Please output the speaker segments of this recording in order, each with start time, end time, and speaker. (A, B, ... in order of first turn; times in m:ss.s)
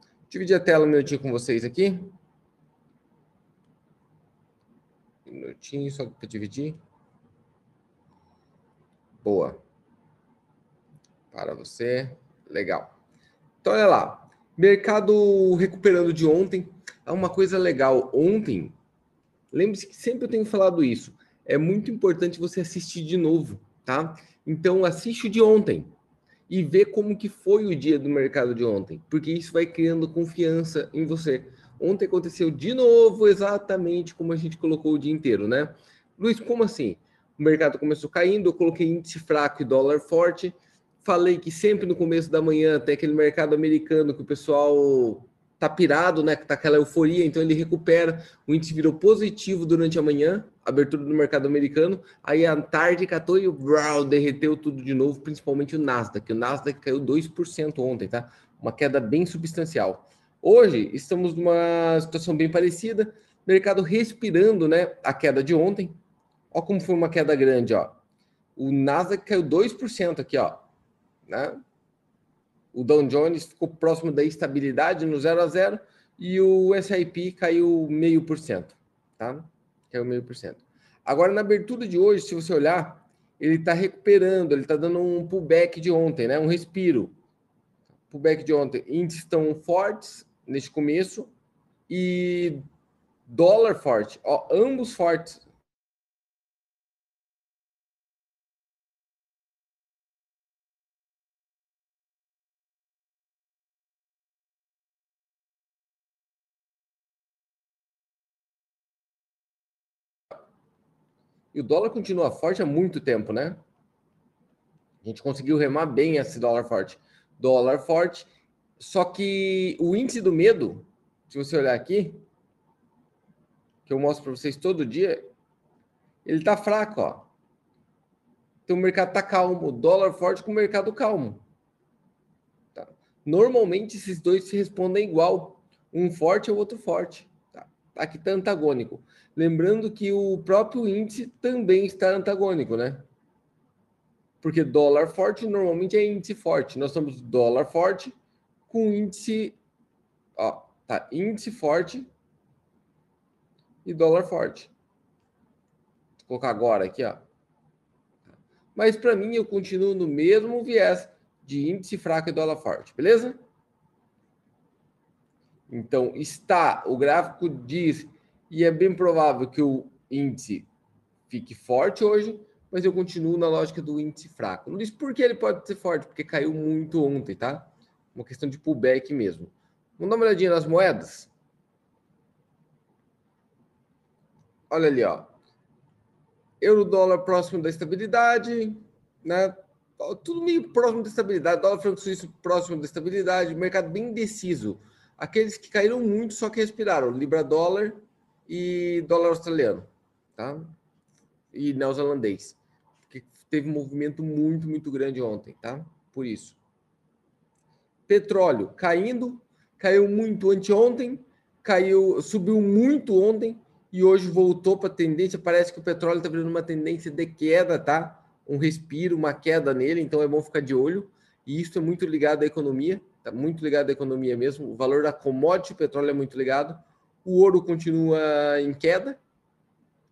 0:00.3-0:02.2 A
0:05.3-0:06.8 A
0:09.2-0:09.6 A
0:11.3-0:12.9 A
0:13.6-0:18.8 A
0:19.5-0:25.9 A
0:26.5-1:06.0 A
1:06.5-1:08.0 A
1:08.6-1:10.6 A
1:11.3-1:11.6 A
1:12.7-1:27.1 A
1:28.1-1:31.3 A
1:31.9-1:32.6 A
1:33.3-1:35.4 A
1:51.5-1:53.6 A
1:55.0-1:58.3 A
1:58.8-2:02.2 A
2:03.9-2:05.3 A
2:06.2-2:07.3 A
2:08.7-2:11.4 A
2:12.8-2:23.0 A
2:24.4-2:28.1 A
2:28.7-2:29.6 A
2:30.4-2:32.1 A
2:33.8-2:34.7 A
2:36.2-2:37.2 A
2:38.8-2:43.4 A
2:45.7-2:50.7 A
2:51.3-3:01.3 A
3:04.7-3:05.3 A
3:06.6-3:20.7 A
3:21.5-3:22.6 A
3:23.1-3:26.6 A
3:28.1-3:49.2 A